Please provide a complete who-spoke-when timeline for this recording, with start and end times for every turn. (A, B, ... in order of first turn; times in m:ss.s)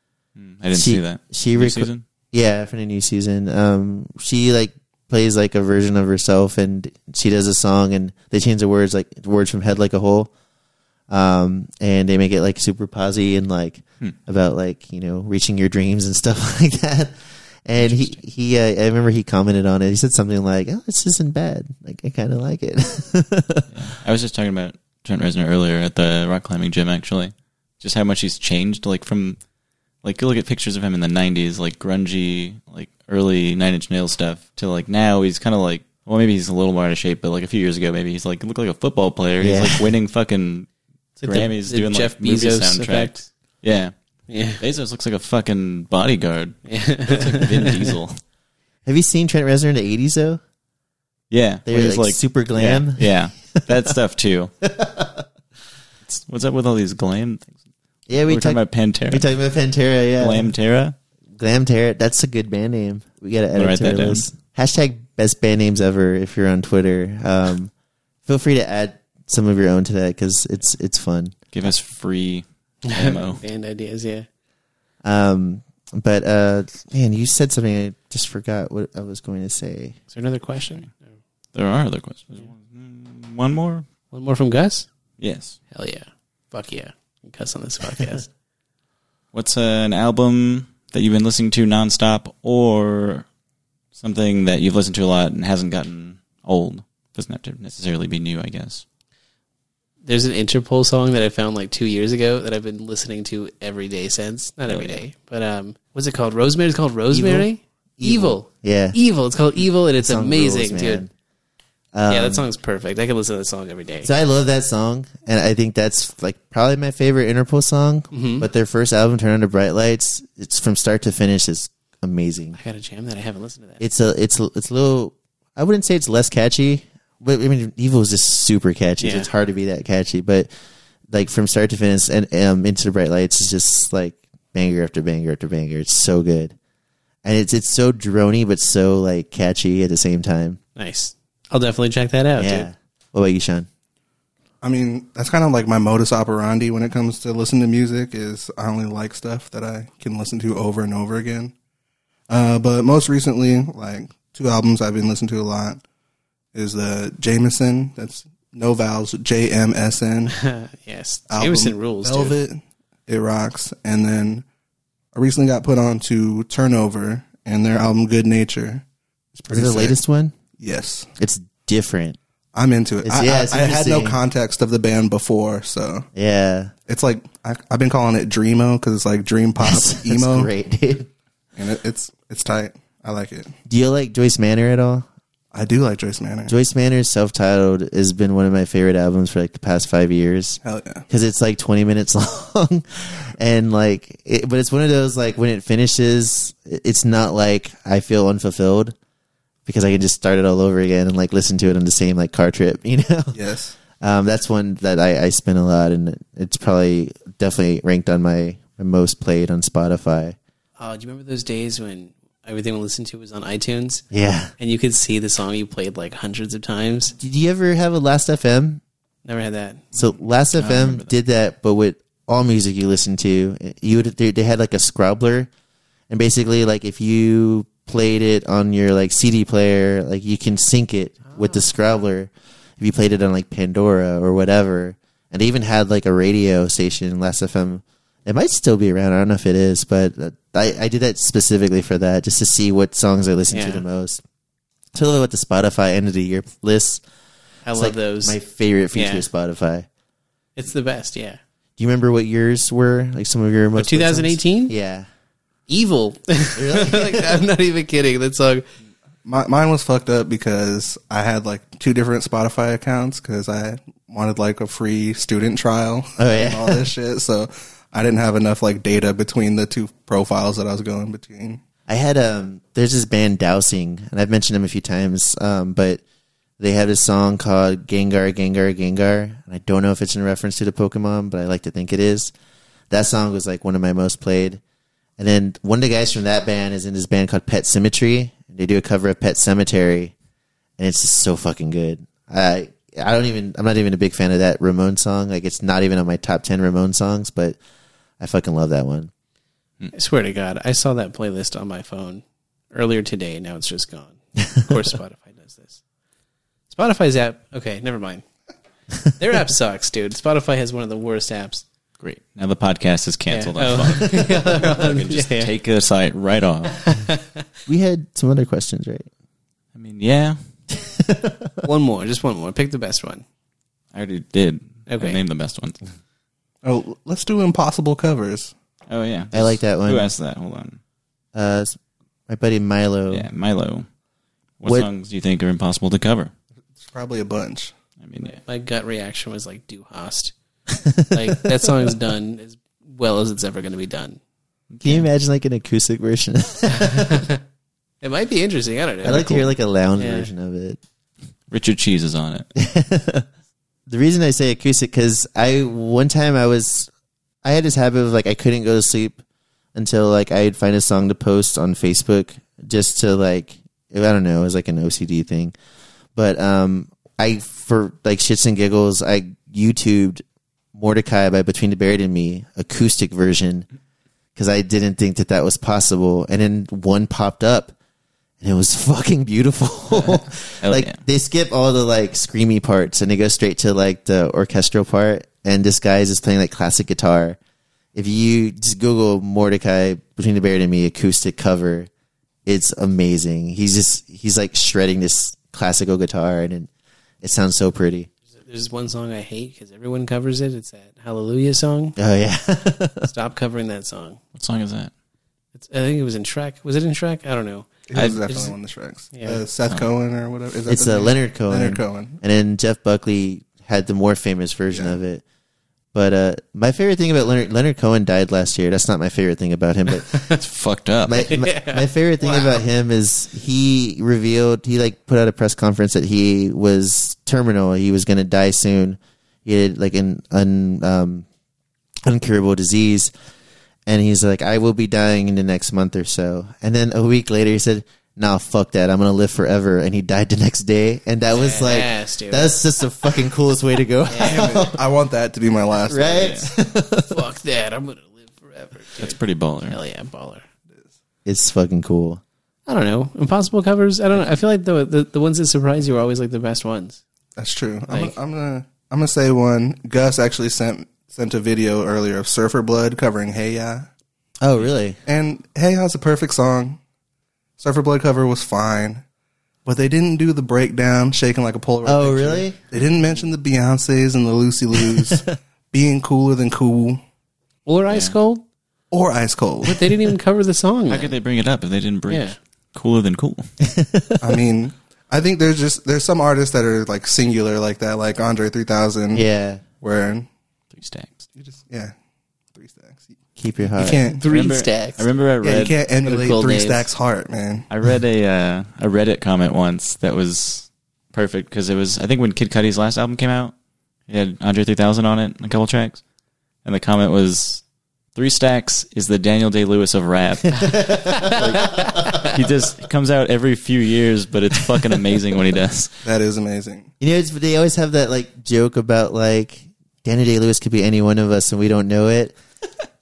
0:00.4-0:02.0 A
0:00.7-0:10.3 B
0:11.1-0:23.7 B
0:17.8-0:18.2 A
0:23.7-0:29.4 A
0:30.0-0:40.7 A
0:39.4-0:39.9 B
0:41.2-0:43.3 C
0:41.2-0:43.9 A
0:44.3-0:44.6 C
0:44.5-0:48.2 A
0:46.7-0:48.0 C
0:48.9-0:50.4 B
0:51.3-0:54.5 A
0:51.7-0:53.9 B
0:54.6-0:55.3 B
0:56.0-0:57.5 A
0:58.1-1:00.5 B
0:58.2-0:59.3 A
1:00.2-1:01.0 A
1:01.4-1:07.7 B
1:03.6-1:04.2 A
1:08.3-1:11.4 B
1:11.5-1:13.4 A
1:12.8-1:14.3 C
1:15.0-1:20.0 B
1:20.1-1:21.0 C
1:21.5-1:23.9 A
1:24.1-1:24.9 C
1:25.2-1:25.6 A
1:25.7-1:28.3 C
1:29.3-1:33.3 A
1:34.0-1:38.8 A
1:40.0-1:51.0 C
1:44.7-1:45.0 A
1:47.1-1:47.5 B
1:48.0-1:49.0 B
1:50.0-1:51.1 B
1:51.9-1:52.4 B
1:52.1-1:54.1 C
1:54.0-2:02.6 B
1:58.1-1:58.5 C
2:02.6-2:03.8 C
2:03.8-2:10.5 B
2:09.0-2:09.3 C
2:11.1-2:16.6 B
2:17.2-2:20.6 B
2:20.8-2:22.7 C
2:22.4-2:23.7 B
2:24.6-2:31.5 D
2:32.3-2:35.8 D
2:36.5-2:40.4 D
2:40.3-2:42.4 C
2:41.3-2:44.4 D
2:45.1-2:50.0 D
2:49.5-2:50.3 B
2:50.6-2:51.1 D
2:51.2-2:52.2 B
2:52.5-2:56.1 D
2:53.0-2:54.2 B
2:56.2-2:56.7 B
2:56.9-3:00.5 D
2:59.6-3:01.1 B
3:01.6-3:03.5 D
3:03.7-3:05.1 B
3:05.5-3:06.5 D
3:06.5-3:19.0 B
3:10.6-3:11.0 D
3:19.7-3:23.4 B
3:23.3-3:23.8 D
3:24.0-3:30.4 B
3:30.8-3:37.2 C
3:34.1-3:34.5 B
3:37.2-3:38.8 B
3:39.2-3:40.0 C
3:39.9-3:45.5 B
3:40.6-3:41.1 A
3:46.1-4:04.2 B
4:03.5-4:03.8 C
4:04.9-4:07.0 B
4:07.6-4:08.4 C
4:07.7-4:09.9 B
4:08.9-4:09.2 C
4:10.6-4:11.4 C
4:11.8-4:15.1 B
4:13.8-4:14.7 C
4:15.7-4:18.6 C
4:16.6-4:17.4 B
4:19.2-4:31.6 D
4:26.2-4:26.9 B
4:31.9-4:36.0 B
4:36.6-4:42.3 B
4:42.9-4:44.6 B
4:45.2-4:50.1 B
4:50.8-4:57.6 B
4:58.2-4:59.1 B
4:59.9-5:05.8 C
5:06.7-5:08.2 C
5:09.2-5:11.6 C
5:12.0-5:16.8 A
5:13.3-5:15.5 C
5:16.8-5:17.2 C
5:17.7-5:19.1 B
5:19.7-5:20.4 A
5:20.7-5:21.6 B
5:21.6-5:23.2 C
5:23.9-5:25.8 A
5:24.9-5:25.2 C
5:26.6-5:28.5 D
5:28.9-5:30.8 A
5:29.3-5:30.1 B
5:31.4-5:31.8 B
5:32.3-5:33.3 B
5:33.1-5:33.9 A
5:34.6-5:36.3 A
5:36.8-5:37.7 D
5:38.0-5:38.4 A
5:38.2-5:40.3 C
5:40.7-5:41.9 B
5:41.1-5:44.2 C
5:44.7-5:45.1 A
5:44.8-5:47.3 B
5:46.8-5:47.4 C
5:48.0-5:50.3 C
5:49.0-5:50.8 B
5:51.5-5:52.5 A
5:52.6-5:53.3 B
5:53.9-5:56.9 B
5:57.4-5:59.2 B
5:59.8-6:05.5 B
6:06.2-6:10.2 B
6:10.7-6:13.7 B
6:14.4-6:17.7 B
6:18.4-6:27.4 B
6:19.9-6:21.0 A
6:28.0-6:31.9 B
6:32.5-6:36.7 B
6:37.2-6:38.1 B
6:38.5-6:42.0 C
6:42.0-6:43.1 B
6:43.1-6:44.2 C
6:44.4-6:44.9 A
6:45.6-6:48.6 C
6:47.9-6:52.2 D
6:47.9-6:48.2 A
6:49.1-6:49.4 C
6:50.7-6:55.2 B
6:54.7-6:55.0 D
6:55.9-7:00.3 B
7:00.1-7:00.4 C
7:00.3-7:01.4 A
7:01.1-7:11.2 B
7:01.3-7:02.6 C
7:12.0-7:13.1 B
7:13.9-7:24.8 B
7:21.3-7:22.6 C
7:24.1-7:24.5 C
7:24.2-7:26.5 D
7:25.9-7:27.2 B
7:26.2-7:26.5 A
7:27.1-7:30.4 C
7:29.0-7:29.8 A
7:31.2-7:32.2 B
7:32.7-7:37.0 C
7:37.4-7:43.9 D
7:37.9-7:38.2 C
7:44.4-7:45.0 B
7:45.1-7:46.8 D
7:47.6-7:49.0 D
7:49.6-7:57.0 D
7:51.8-7:52.6 B
7:57.7-7:58.4 C
7:57.9-7:58.2 A
7:58.9-8:00.1 D
7:59.6-8:01.2 C
8:00.9-8:03.5 A
8:02.1-8:02.4 C
8:03.6-8:04.3 B
8:04.2-8:09.2 D
8:09.1-8:09.6 B
8:09.8-8:10.3 D
8:10.7-8:11.2 A
8:11.4-8:11.9 D
8:12.6-8:13.1 D
8:13.4-8:14.0 B
8:13.8-8:14.3 D
8:14.1-8:15.1 C
8:14.3-8:15.8 A
8:15.4-8:17.7 D
8:16.0-8:16.9 C
8:17.7-8:23.5 A
8:24.1-8:26.0 A
8:26.6-8:27.6 A
8:28.2-8:36.0 A
8:30.6-8:32.2 B
8:31.4-8:32.2 C
8:36.0-8:36.9 D
8:37.0-8:42.4 B